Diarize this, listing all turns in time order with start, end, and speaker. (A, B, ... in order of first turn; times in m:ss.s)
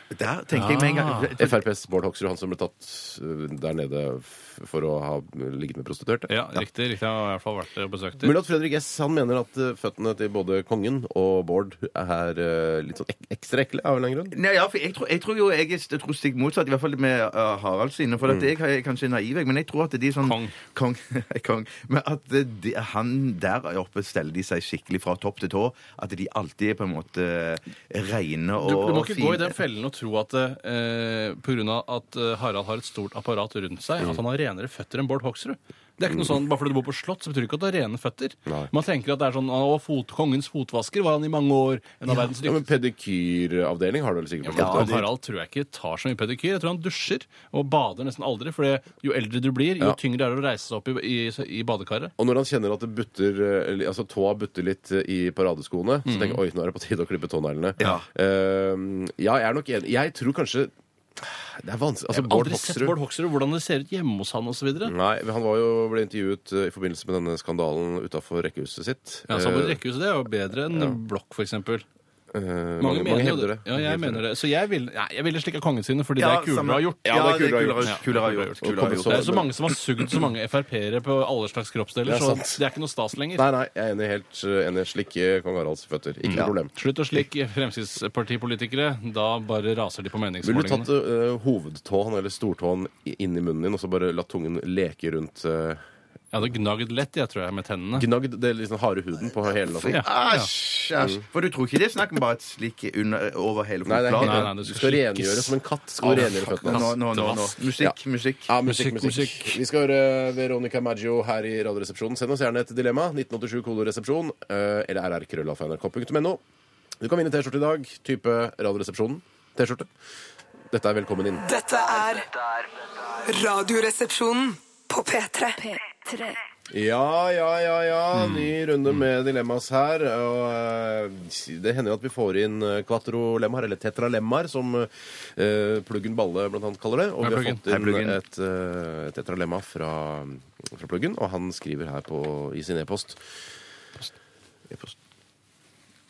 0:00.1-0:01.6 A
0:00.5-0:01.3 B
0:01.4-0:06.3 C
0:06.3-0:08.3 B
0:08.2-0:14.3 C
0:14.3-0:29.6 A
0:20.2-0:20.5 B
0:28.6-0:42.6 B
0:36.1-0:36.3 C
0:42.4-0:45.0 C
0:44.4-0:52.1 B
0:44.6-0:45.0 A
0:52.2-1:03.0 C
0:56.0-0:56.4 B
0:57.8-0:58.0 A
1:02.1-1:04.9 B
1:04.8-1:09.8 C
1:09.3-1:11.8 B
1:12.3-1:14.2 C
1:12.8-1:17.2 B
1:16.2-1:19.3 A
1:17.0-1:18.0 C
1:17.8-1:23.4 B
1:18.6-1:19.7 C
1:22.0-1:22.6 C
1:23.4-1:26.7 C
1:26.2-1:30.9 B
1:30.4-1:35.8 C
1:36.3-1:38.1 B
1:37.9-1:40.0 C
1:39.7-1:44.5 A
1:39.9-1:40.5 B
1:43.8-1:46.9 C
1:44.2-1:45.6 B
1:46.0-1:48.5 A
1:46.1-1:47.6 B
1:48.5-1:56.4 C
1:48.6-1:49.6 B
1:57.0-1:59.9 C
2:00.7-2:01.4 C
2:01.4-2:06.4 D
2:06.7-2:23.2 C
2:08.2-2:08.5 B
2:17.2-2:17.6 B
2:17.7-2:18.2 A